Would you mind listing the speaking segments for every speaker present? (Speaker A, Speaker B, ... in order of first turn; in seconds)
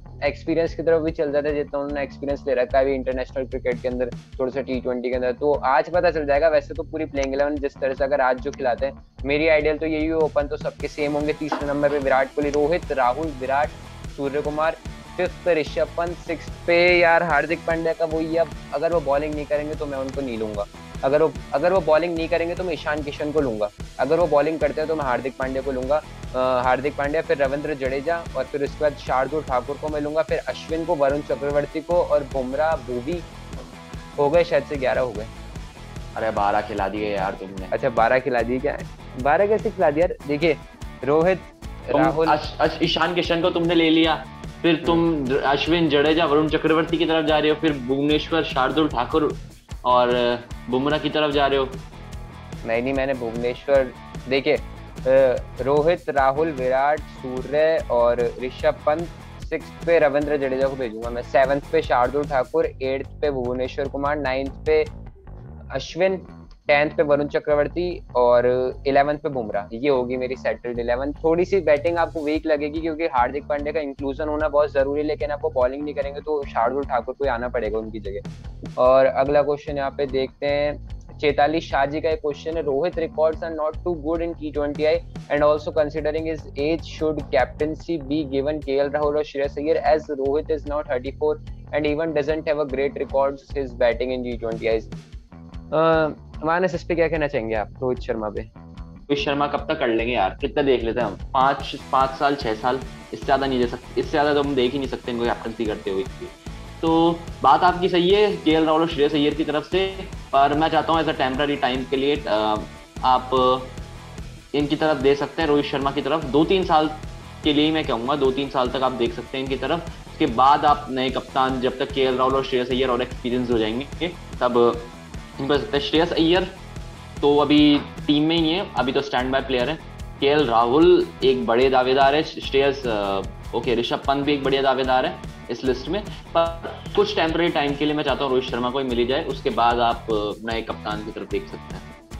Speaker A: 0.2-33.2, 34.2-35.3, 37.7-42.4, 52.6-64.9, 65.7-78.2, 78.8-94.9, 95.7-98.5
Speaker B: 36.2-37.7, 41.9-51.8, 99.1-113.8, 114.5-126.6, 127.2-141.9